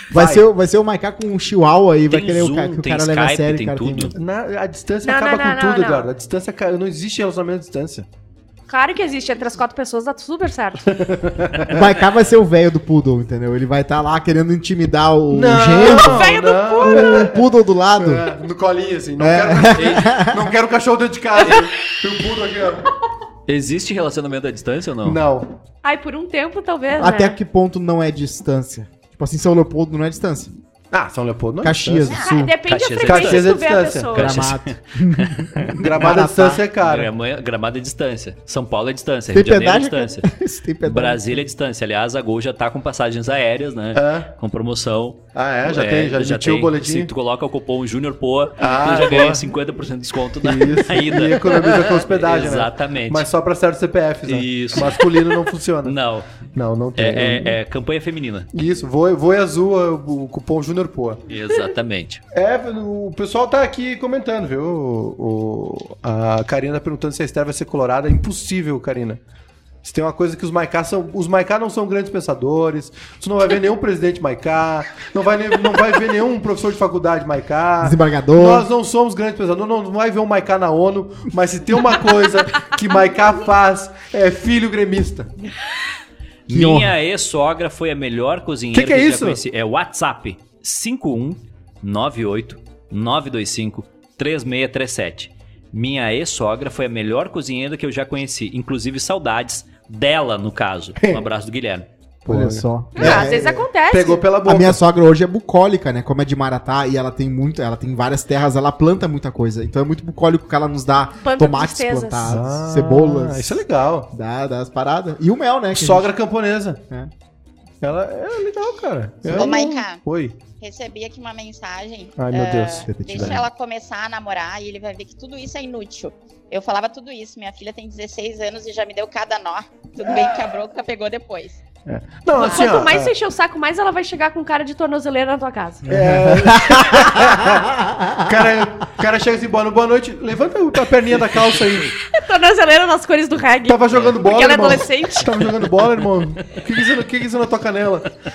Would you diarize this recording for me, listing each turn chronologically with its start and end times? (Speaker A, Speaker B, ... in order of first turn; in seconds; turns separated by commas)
Speaker A: 0.1-0.5, Speaker B: 0.1-4.1, Speaker C: 2.1-4.1, Speaker A: 4.1-8.1, Speaker D: 5.0-6.1, Speaker D: 8.7-11.1, Speaker A: 10.9-11.8, Speaker B: 11.7-18.3, Speaker A: 15.3-23.0, Speaker D: 15.8-17.2, Speaker B: 19.2-20.5, Speaker C: 19.7-20.1, Speaker C: 23.5-25.2, Speaker A: 25.0-25.5, Speaker D: 25.8-27.4, Speaker B: 27.0-30.5, Speaker A: 30.9-32.2, Speaker B: 31.6-32.5, Speaker E: 32.1-32.4, Speaker D: 32.1-34.4, Speaker C: 32.7-33.5, Speaker A: 33.0-34.2, Speaker C: 34.1-35.8, Speaker B: 34.1-36.6, Speaker A: 35.7-37.1, Speaker C: 36.8-40.3, Speaker B: 39.3-41.4, Speaker C: 40.8-53.3, Speaker A: 43.9-44.3, Speaker A: 45.3-47.1, Speaker A: 48.6-49.5, Speaker A: 50.4-55.9, Speaker C: 54.2-58.5, Speaker A: 56.5-57.6, Speaker A: 58.5-61.2, Speaker C: 61.3-62.2, Speaker A: 62.3-69.2, Speaker A: 69.8-85.3, Speaker B: 77.8-78.7, Speaker C: 86.5-101.9, Speaker B: 86.5-86.9, Speaker A: 88.7-89.4, Speaker A: 101.0-101.2, Speaker A: 102.2-104.8, Speaker B: 102.2-103.7, Speaker D: 103.0-104.3, Speaker B: 104.4-116.1, Speaker D: 111.2-112.4, Speaker A: 112.2-114.1, Speaker A: 115.7-116.8, Speaker A: 117.8-120.4, Speaker B: 119.2-119.5, Speaker E: 119.3-131.6, Speaker A: 122.2-123.4, Speaker B: 122.9-123.5, Speaker A: 131.9-133.1, Speaker D: 132.3-135.9, Speaker E: 132.4-132.7, Speaker B: 135.8-138.3, Speaker A: 135.9-142.0, Speaker D: 142.1-145.4, Speaker A: 143.6-148.1